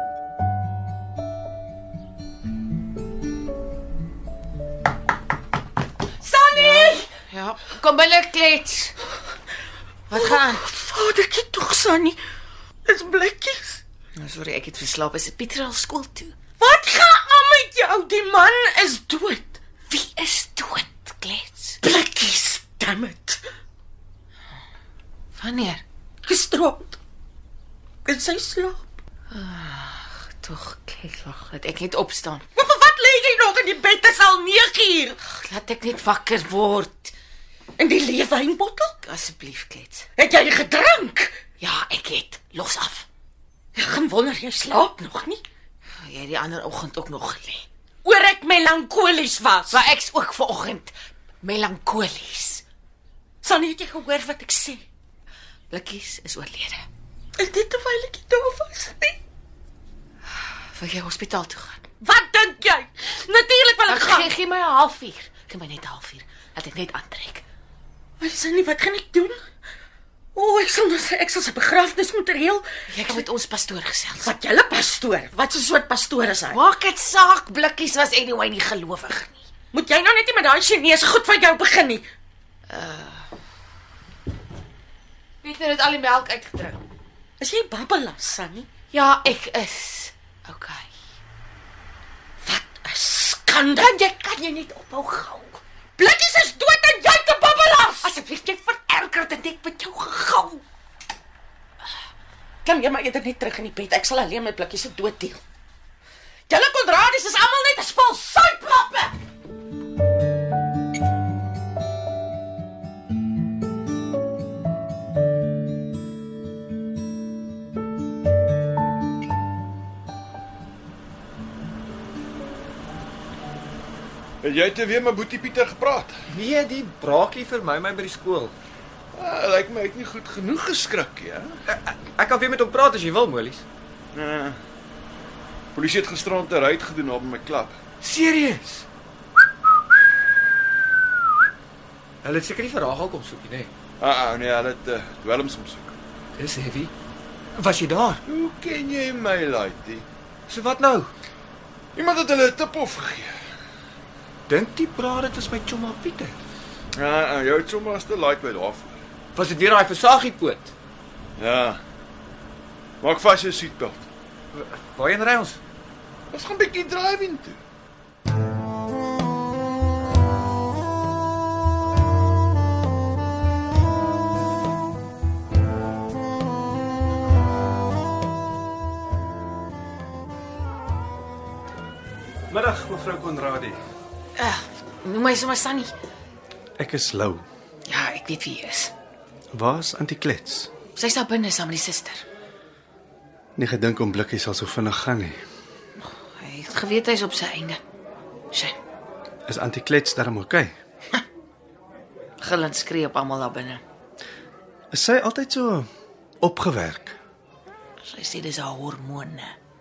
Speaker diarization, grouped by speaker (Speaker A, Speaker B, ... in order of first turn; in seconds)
Speaker A: 6.2-7.1, 10.1-12.2, 12.8-13.8, 16.6-19.6, 21.8-23.4, 26.2-27.0, 28.1-28.9, 32.5-35.2, 37.8-39.0, 40.2-41.4, 43.8-45.4, 48.0-49.8, 53.4-54.8, 57.4-59.2, 62.0-64.3, 68.2-69.4, 70.3-73.2, 74.2-76.6, 79.7-82.1, 87.4-88.7, 92.4-94.2, 96.0-98.2, 102.7-105.4, 106.5-109.2
Speaker B: 6.5-8.9, 10.1-10.6, 14.2-16.4, 19.9-21.8, 25.4-25.8, 29.3-32.5, 35.3-37.1, 39.0-40.1, 41.6-43.1, 46.1-47.6, 49.7-52.6, 55.7-56.9, 60.7-61.9, 63.9-67.4, 72.9-74.3, 76.5-79.5, 82.7-83.3, 85.4-86.8, 88.9-90.9, 94.0-95.6, 98.1-100.6, 184.4-185.9, 187.9-188.9, 190.9-192.2, 196.3-197.8, 202.4-203.8, 208.0-209.6
Speaker C: 124.4-126.1, 129.1-131.5, 134.1-134.6, 135.8-137.8, 144.0-146.0, 148.3-150.1, 151.9-153.3, 156.9-159.0, 161.4-161.8, 163.0-164.1, 166.3-167.6
Speaker D: 126.3-128.6, 131.7-133.7, 138.0-138.9, 142.2-143.7, 146.4-146.9, 147.6-148.2, 150.5-151.1, 154.5-156.4, 159.3-160.7, 164.5-165.6
Speaker E: 182.5-183.8, 186.8-187.5, 189.5-190.7, 193.6-195.4, 199.5-200.7, 204.9-205.9, 206.4-207.2